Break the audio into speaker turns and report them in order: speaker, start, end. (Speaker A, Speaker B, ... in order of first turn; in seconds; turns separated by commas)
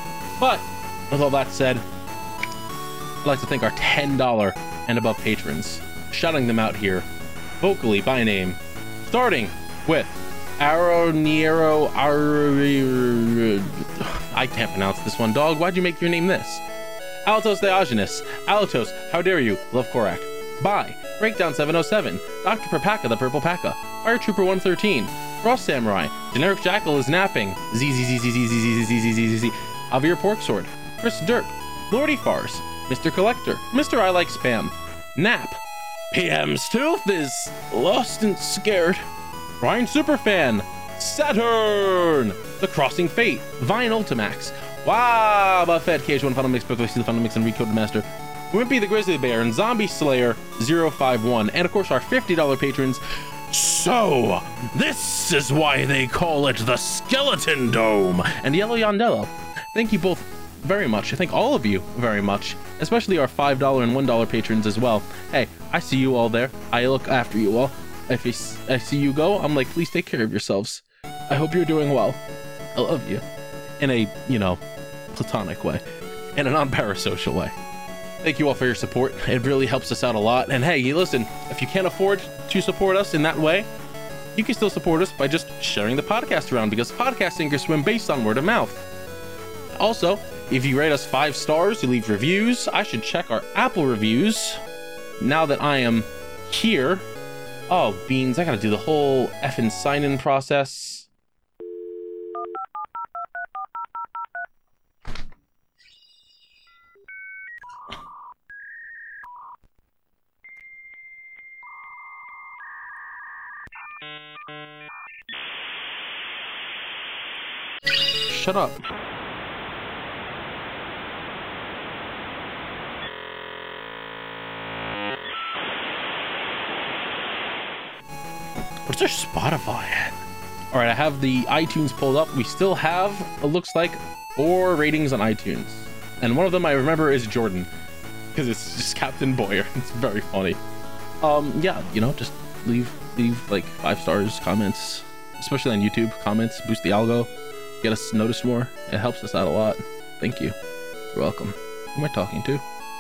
Speaker A: 0.4-1.8, Speaker A: 3.2-7.1, Speaker A: 7.6-16.6, Speaker A: 17.2-35.6, Speaker A: 36.1-39.0, Speaker A: 39.6-72.2, Speaker A: 72.7-73.2, Speaker A: 73.8-74.6, Speaker A: 75.1-75.8, Speaker A: 76.3-77.5, Speaker A: 78.2-83.7, Speaker A: 84.3-88.8, Speaker A: 89.8-94.6, Speaker A: 95.2-97.0, Speaker A: 97.7-101.1, Speaker A: 118.3-118.8, Speaker A: 128.8-130.2, Speaker A: 130.7-137.7, Speaker A: 138.3-140.6, Speaker A: 141.2-147.3, Speaker A: 147.8-150.5, Speaker A: 151.1-152.6